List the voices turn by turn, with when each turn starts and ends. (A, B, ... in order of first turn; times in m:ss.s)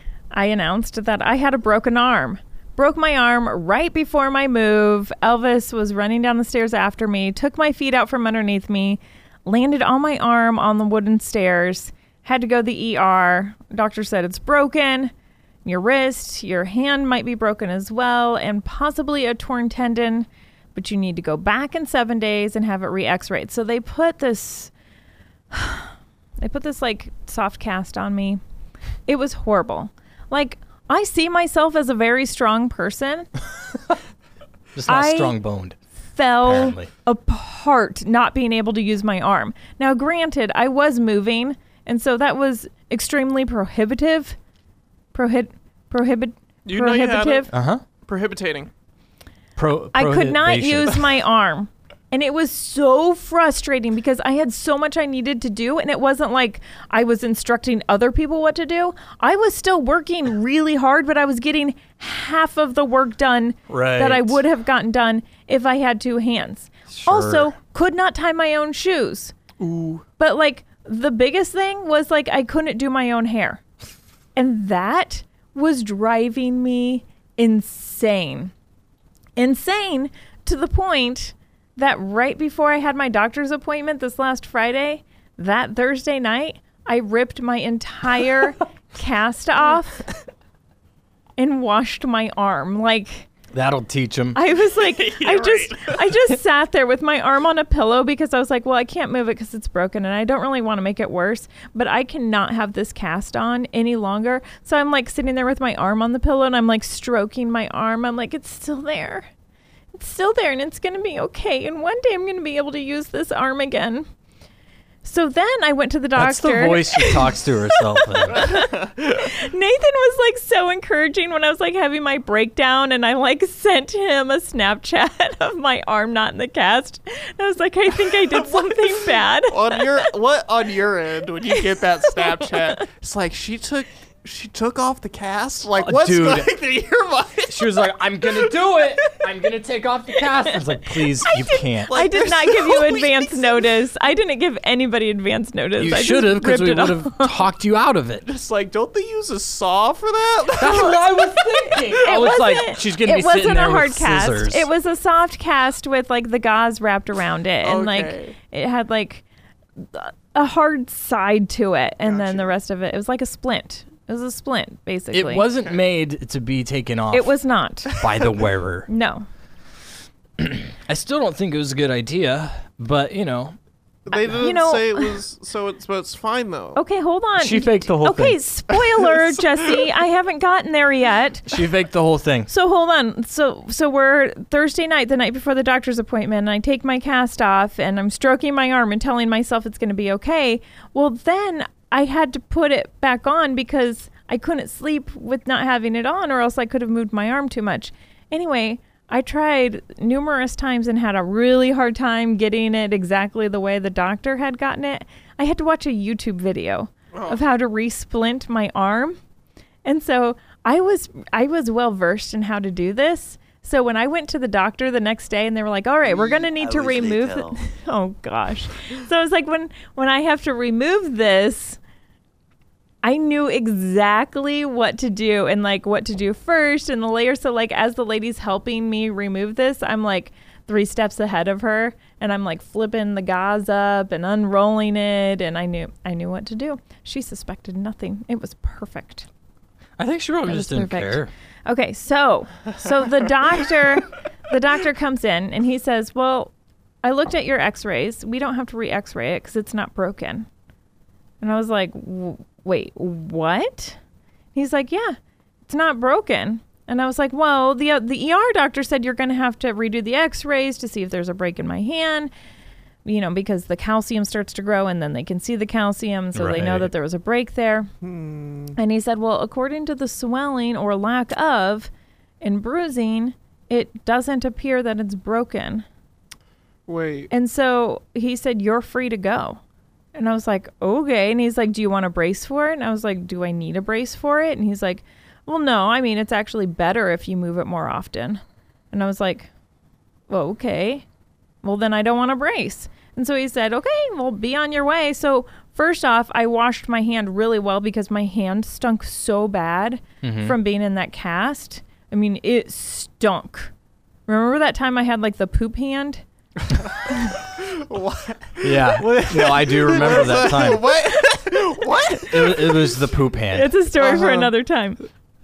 0:00.3-0:15.1 A
0:15.6-0:24.7 A
0:25.5-0:28.4 A
0:29.0-0:33.3 A
0:34.7-0:35.8 B
0:34.8-0:35.4 A
0:36.1-0:44.4 A
0:36.4-0:36.9 B
0:45.1-0:47.5 A
0:46.6-0:47.5 C
0:47.5-0:47.8 B
0:48.0-0:48.7 C
0:49.6-0:51.0 B
0:49.9-1:09.3 A
1:03.7-1:04.4 B
1:06.9-1:07.5 B
1:09.6-1:10.0 C
1:10.2-1:13.6 A
1:14.4-1:18.5 A
1:19.4-1:30.1 A
1:31.4-1:33.3 A
1:33.5-1:34.4 B
1:34.3-1:49.3 A
1:34.8-1:35.9 C
1:49.9-1:54.1 A
1:55.0-2:09.8 A
1:56.2-1:58.5 B
2:08.3-2:19.2 C
2:15.8-2:16.5 B
2:17.5-2:21.9 B
2:21.9-2:23.7 C
2:21.9-2:27.3 A
2:25.8-2:28.2 B
2:28.2-2:31.2 C
2:30.6-2:34.7 B
2:32.0-2:39.2 A
2:37.6-2:38.3 C
2:39.8-2:45.4 A
2:42.0-2:42.5 C
2:45.1-2:47.4 B
2:45.5-2:45.8 C
2:47.1-2:48.0 A
2:47.9-2:48.9 B
2:48.9-2:49.2 A
2:50.4-2:53.6 B
2:54.0-2:56.8 C
2:54.1-2:55.1 A
2:56.8-3:01.5 A
2:57.4-2:58.4 B
2:58.7-2:59.4 C
3:01.4-3:02.5 B
3:02.5-3:29.2 A
3:27.1-3:27.4 C
3:29.8-3:41.8 A
3:43.0-3:59.3 A
4:00.0-4:01.3 B
4:00.4-4:06.5 A
4:07.0-4:10.5 A
4:11.4-4:14.0 A
4:14.5-4:22.3 A
4:23.0-4:27.9 A
4:26.3-4:26.9 B
4:28.0-4:28.8 C
4:28.8-4:31.9 A
4:32.4-4:35.8 A
4:36.9-4:37.3 C
4:37.3-4:39.6 A
4:40.1-4:49.5 A
4:50.3-4:51.0 A
4:51.6-5:03.7 A
5:00.2-5:00.6 B
5:04.3-5:06.2 A
5:07.3-5:12.9 C
5:08.6-5:10.9 B
5:12.3-5:13.7 B
5:13.5-5:15.0 A
5:14.0-5:14.5 C